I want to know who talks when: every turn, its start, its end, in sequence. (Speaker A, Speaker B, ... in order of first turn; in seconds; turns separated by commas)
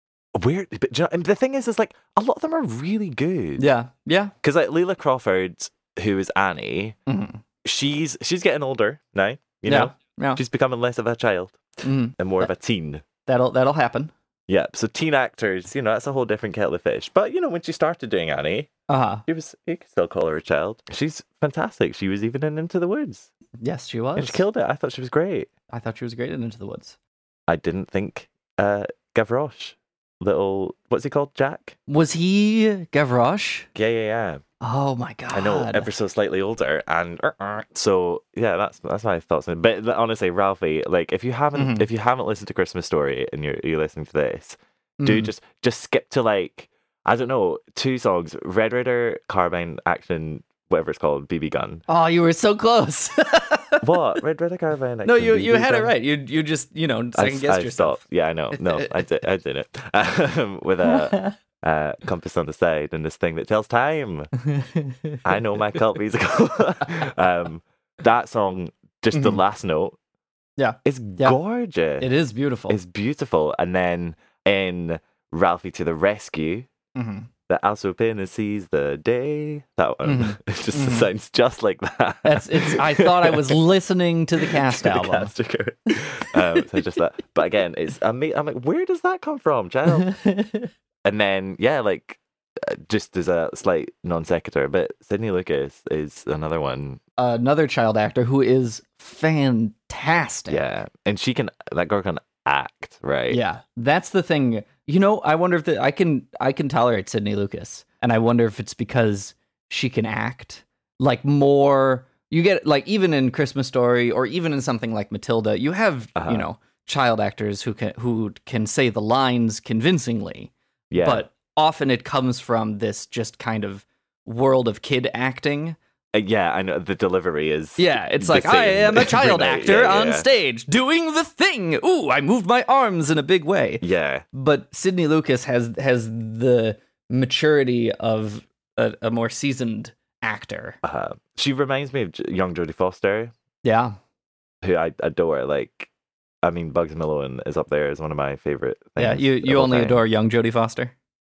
Speaker A: 0.3-3.7, Speaker B: 3.6-4.3, Speaker A: 4.4-7.0, Speaker B: 7.1-7.4, Speaker A: 7.6-11.6, Speaker B: 9.7-10.4, Speaker B: 11.8-12.2, Speaker A: 12.2-13.0, Speaker B: 13.3-14.1, Speaker A: 14.5-18.7, Speaker B: 18.9-19.2, Speaker A: 19.3-23.3, Speaker B: 23.6-24.4, Speaker A: 24.1-25.5, Speaker B: 25.7-27.0, Speaker A: 27.5-31.8, Speaker B: 31.9-33.7, Speaker A: 33.8-34.4, Speaker B: 34.6-35.9, Speaker A: 35.3-51.9, Speaker B: 41.5-41.9, Speaker B: 45.0-45.3, Speaker B: 51.9-53.8, Speaker A: 53.8-55.9, Speaker B: 55.0-58.0, Speaker A: 57.1-64.3, Speaker B: 58.5-59.0, Speaker B: 60.9-61.4, Speaker B: 64.5-65.2, Speaker A: 65.2-70.0, Speaker B: 69.1-69.4, Speaker B: 70.6-71.4, Speaker A: 70.8-72.1, Speaker B: 72.0-72.8, Speaker A: 72.7-76.7, Speaker B: 77.0-77.3, Speaker A: 77.5-83.6, Speaker B: 80.0-81.1, Speaker B: 82.2-85.3, Speaker A: 84.4-90.2, Speaker B: 90.0-90.7, Speaker A: 91.0-97.0, Speaker B: 97.2-100.7, Speaker A: 100.5-103.4, Speaker B: 103.3-125.8, Speaker A: 116.2-116.5, Speaker A: 120.9-121.3, Speaker A: 126.1-130.3, Speaker B: 127.8-140.8, Speaker A: 133.8-134.2, Speaker A: 140.8-143.3, Speaker B: 143.6-144.0, Speaker A: 144.6-145.9, Speaker A: 146.4-150.0, Speaker B: 149.0-150.9